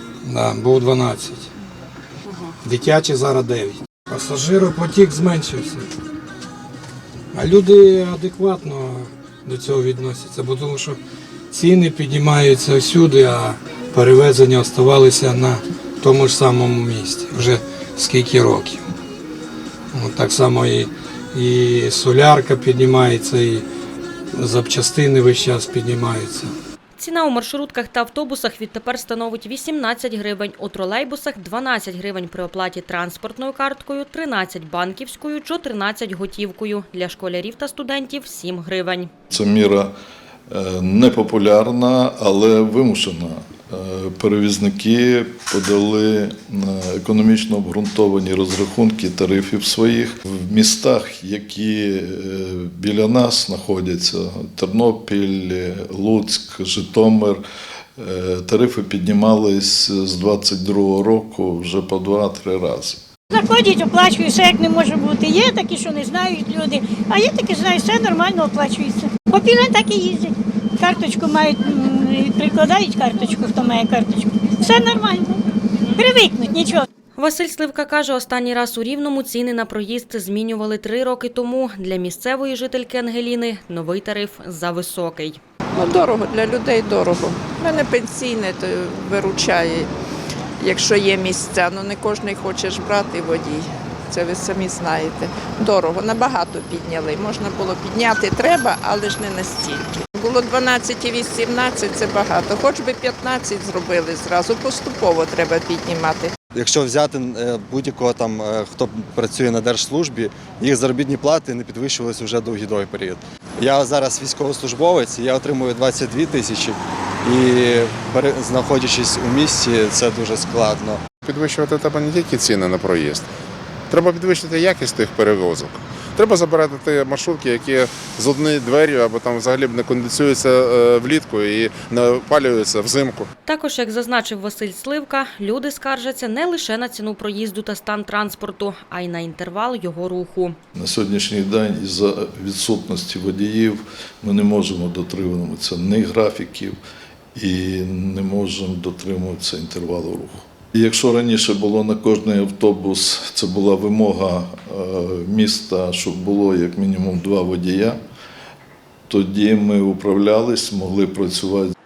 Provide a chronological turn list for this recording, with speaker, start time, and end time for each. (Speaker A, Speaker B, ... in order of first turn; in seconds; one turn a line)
Speaker A: 0.2-1.5
Speaker A: 2.6-5.9
Speaker A: 7.3-11.0
Speaker A: 11.5-18.8
Speaker A: 19.9-23.6
Speaker A: 24.3-26.5
Speaker B: 27.0-39.1
Speaker C: 39.3-39.9
Speaker C: 40.5-57.4
Speaker C: 58.0-63.0
Speaker D: 63.3-76.8
Speaker B: 77.2-85.4
Speaker E: 85.7-89.9
Speaker E: 90.6-106.3
Speaker F: 106.5-121.0
Speaker G: 121.2-123.3
Speaker G: 123.9-133.3
Speaker B: 133.5-140.6
Speaker C: 140.8-146.8
Speaker C: 147.3-158.0
Speaker C: 159.1-161.7